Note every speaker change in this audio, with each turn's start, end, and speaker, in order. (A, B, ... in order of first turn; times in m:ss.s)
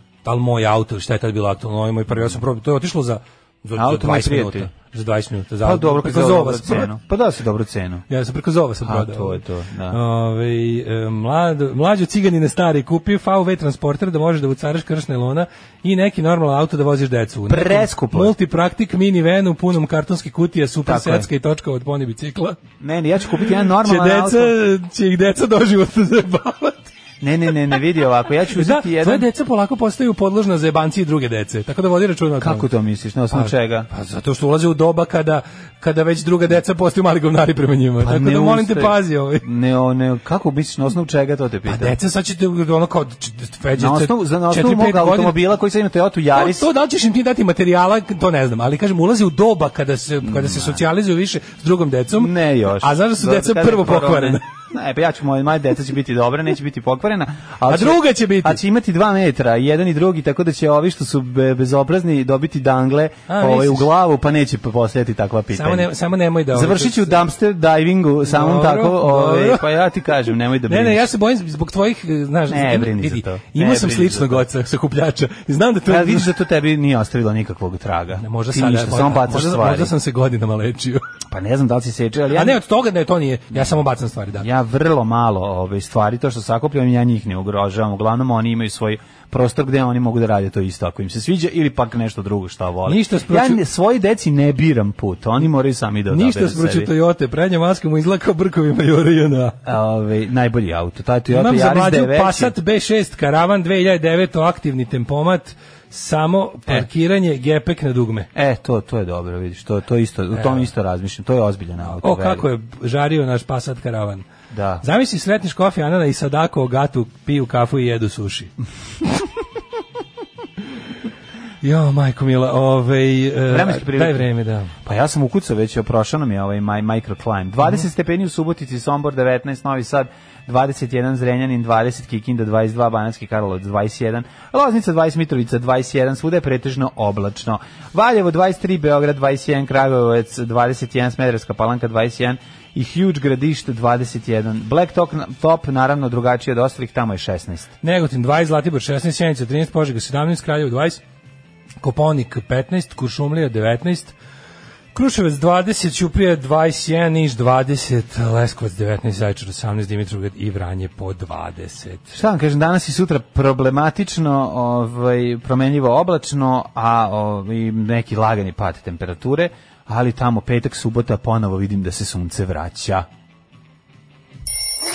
0:00.2-0:06.9 A
0:03.8-0:04.7 B
0:05.6-0:08.0 B
0:08.1-0:22.6 A
0:08.8-0:10.0 B
0:17.5-0:18.3 B
0:20.8-0:21.3 B
0:22.8-0:24.6 B
0:23.6-0:26.9 A
0:27.2-0:29.3 B
0:28.5-0:32.7 A
0:32.4-0:33.9 B
0:33.3-0:39.4 A
0:38.0-0:41.9 B
0:41.6-0:45.5 A
0:43.8-0:46.7 B
0:46.3-0:54.4 A
0:50.2-0:50.8 B
0:52.1-1:05.9 B
0:57.7-0:58.6 A
1:03.3-1:03.9 A
1:05.5-1:07.2 A
1:06.5-1:11.1 B
1:08.2-1:09.7 A
1:10.6-1:16.3 A
1:12.5-1:14.4 B
1:15.9-1:19.9 B
1:18.2-1:21.0 A
1:21.3-1:22.6 B
1:22.3-1:24.5 A
1:24.4-1:36.9 B
1:32.8-1:33.6 A
1:36.1-1:39.6 A
1:39.6-1:42.5 B
1:41.3-1:48.3 A
1:48.3-1:52.5 B
1:50.3-1:50.7 A
1:52.0-1:54.2 A
1:54.5-1:54.8 B
1:54.8-1:58.5 A
2:01.6-2:04.7 A
2:03.5-2:04.3 B
2:04.8-2:27.7 B
2:27.8-2:31.0 A
2:31.8-2:34.1 A
2:34.9-2:42.1 A
2:42.1-2:53.0 B